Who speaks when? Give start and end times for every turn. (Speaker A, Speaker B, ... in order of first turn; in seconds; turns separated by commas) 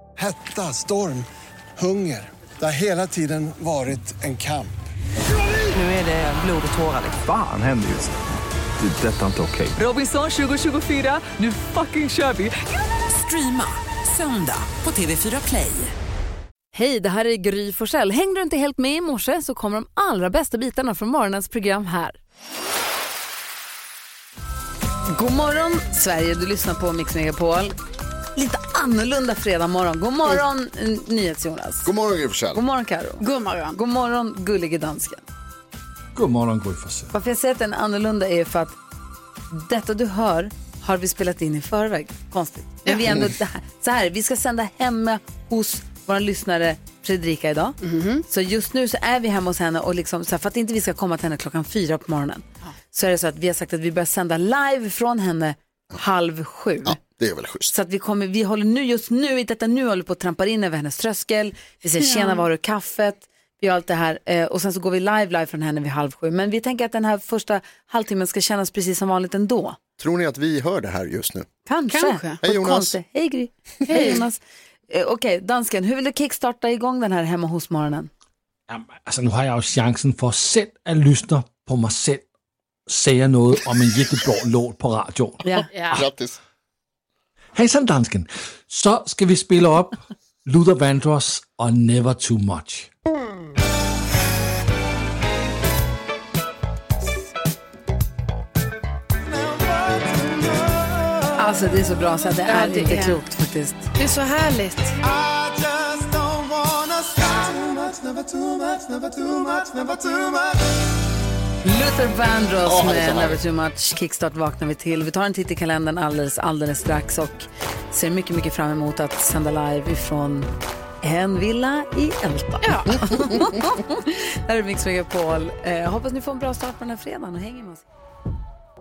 Speaker A: 0.2-4.8, Speaker B: 5.7-7.2, Speaker C: 7.2-8.2, Speaker C: 8.8-9.8, Speaker B: 9.8-15.9, Speaker D: 16.7-22.2, Speaker D: 25.1-27.7, Speaker D: 28.4-31.9, Speaker E: 31.8-32.6, Speaker D: 32.5-35.2, Speaker F: 33.2-33.8, Speaker G: 36.1-37.1, Speaker D: 37.1-38.8, Speaker D: 39.5-57.0, Speaker F: 42.9-43.2, Speaker F: 47.8-48.2, Speaker E: 56.9-57.7, Speaker D: 57.7-69.8, Speaker F: 62.0-62.5, Speaker E: 70.0-71.5, Speaker D: 71.7-78.1, Speaker F: 71.9-72.5, Speaker E: 72.4-73.0, Speaker F: 73.9-74.2, Speaker G: 78.7-82.2, Speaker G: 82.9-85.4, Speaker D: 85.4-85.7, Speaker E: 85.5-86.4, Speaker F: 85.7-86.1, Speaker G: 87.6-92.9, Speaker A: 99.2-101.4, Speaker D: 101.4-103.9, Speaker F: 102.5-103.2, Speaker F: 104.0-105.0, Speaker A: 105.0-110.9, Speaker D: 111.7-120.5, Speaker E: 112.7-113.4, Speaker D: 121.0-127.8, Speaker F: 122.6-123.8